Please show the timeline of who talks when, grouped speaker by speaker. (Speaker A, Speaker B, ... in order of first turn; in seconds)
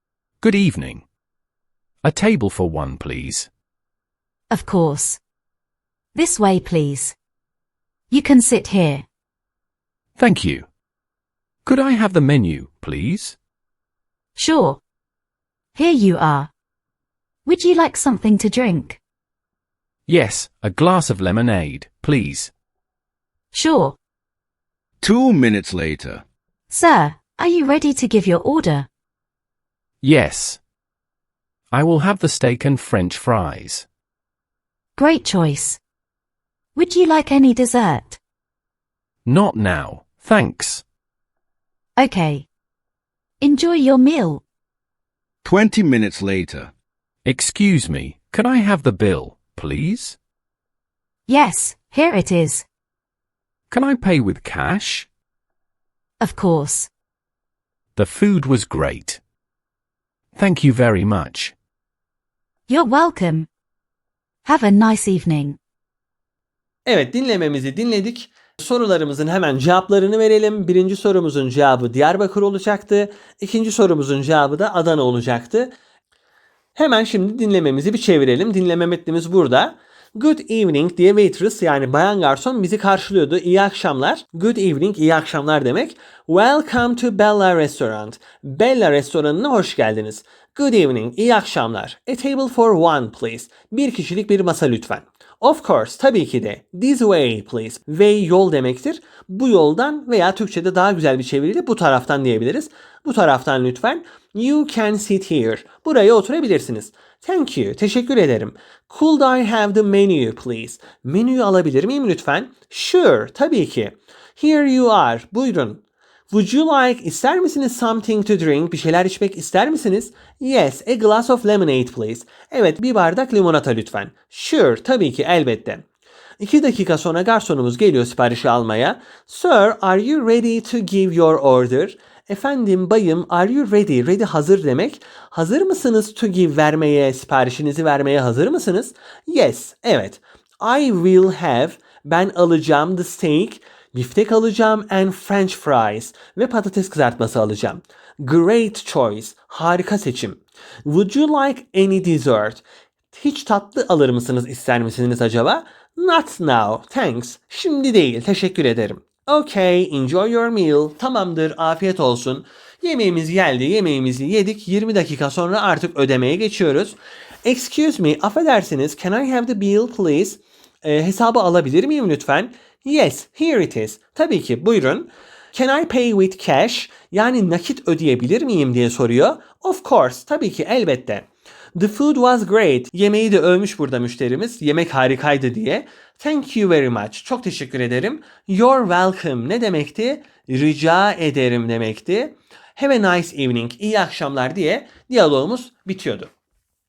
Speaker A: 0.4-1.0, 2.0-3.5, 10.2-10.7, 11.6-13.4, 20.1-22.5, 30.0-30.6, 31.7-33.9, 39.2-40.8, 47.2-50.2, 53.7-55.1, 58.0-59.2, 60.3-61.5
Speaker B: 4.5-5.2, 6.1-7.2, 8.1-9.1, 14.3-14.8, 15.7-16.5, 17.4-19.0, 23.5-24.0, 26.7-28.9, 35.0-35.8, 36.7-38.2, 42.0-42.5, 43.4-44.4, 51.3-52.6, 56.2-56.9, 62.7-63.5, 64.4-65.6
Speaker C: 25.0-26.2, 45.4-46.7
Speaker D: 66.8-75.7, 76.7-125.8, 126.4-196.3